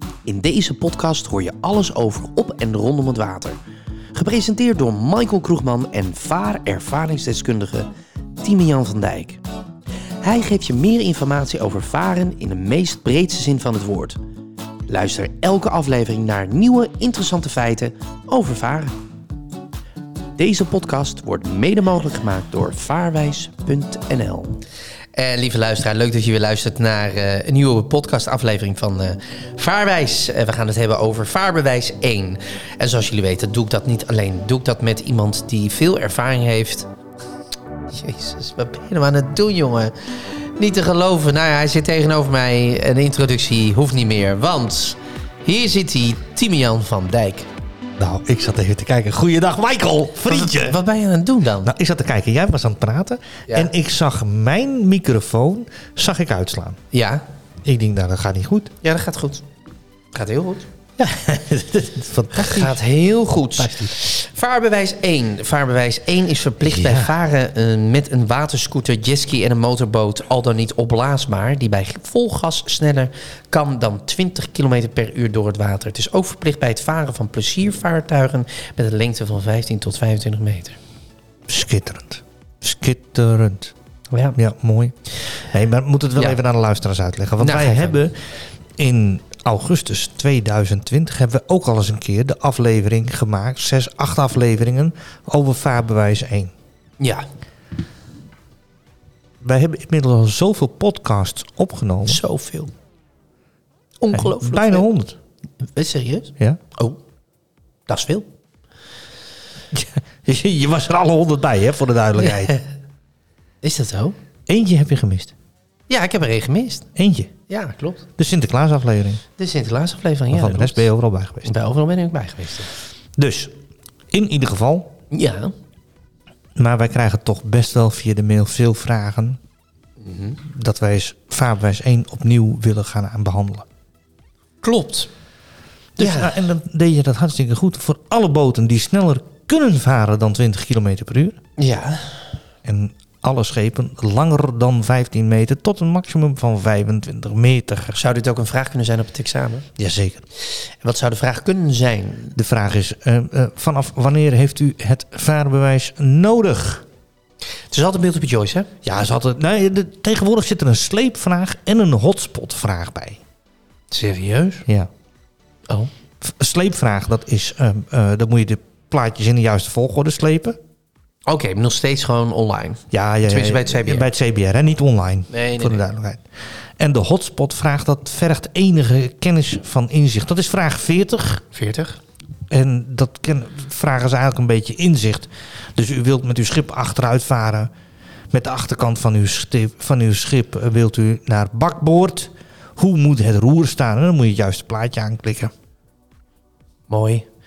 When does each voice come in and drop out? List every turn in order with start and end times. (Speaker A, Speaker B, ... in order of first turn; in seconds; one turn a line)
Speaker A: 0.2-3.6
Speaker A: 4.1-9.4
Speaker A: 10.2-14.2
Speaker A: 14.9-18.9
Speaker A: 20.4-24.6
Speaker A: 25.1-36.9
Speaker A: 37.9-39.9
Speaker A: 40.6-47.5
Speaker B: 48.0-50.8
Speaker A: 50.2-51.7
Speaker B: 51.6-56.8
Speaker A: 56.9-57.2
Speaker B: 57.6-58.7
Speaker A: 58.8-59.4
Speaker A: 60.1-60.7
Speaker B: 61.0-62.8
Speaker A: 62.3-80.8
Speaker B: 63.6-63.9
Speaker B: 66.6-67.1
Speaker B: 81.5-83.7
Speaker A: 84.1-84.4
Speaker B: 84.3-88.1
Speaker A: 87.4-88.0
Speaker B: 88.8-96.5
Speaker A: 97.0-97.2
Speaker B: 99.4-102.2
Speaker A: 102.1-102.7
Speaker A: 104.0-104.9
Speaker B: 104.1-105.2
Speaker A: 105.6-107.0
Speaker A: 107.9-108.2
Speaker B: 109.7-112.6
Speaker A: 112.2-112.6
Speaker A: 113.6-114.2
Speaker B: 114.5-115.3
Speaker A: 115.9-116.8
Speaker B: 117.0-117.3
Speaker A: 117.5-118.0
Speaker B: 118.2-119.2
Speaker A: 119.4-120.9
Speaker B: 120.3-121.5
Speaker A: 121.4-122.7
Speaker B: 123.2-123.5
Speaker B: 124.1-124.9
Speaker A: 125.1-125.5
Speaker B: 126.5-129.4
Speaker A: 130.0-130.4
Speaker B: 130.4-133.6
Speaker A: 134.6-135.1
Speaker B: 135.9-141.4
Speaker A: 136.0-136.4
Speaker A: 141.6-142.2
Speaker B: 142.6-148.0
Speaker A: 147.9-149.7
Speaker B: 149.8-150.2
Speaker A: 150.6-152.3
Speaker B: 152.3-156.8
Speaker A: 157.7-158.7
Speaker B: 158.8-163.2
Speaker A: 163.9-164.6
Speaker B: 166.2-170.6
Speaker A: 171.3-174.1
Speaker B: 172.9-176.2
Speaker A: 175.3-175.8
Speaker B: 176.8-181.4
Speaker A: 181.5-182.0
Speaker B: 182.5-187.7
Speaker B: 188.3-195.5
Speaker A: 196.9-197.3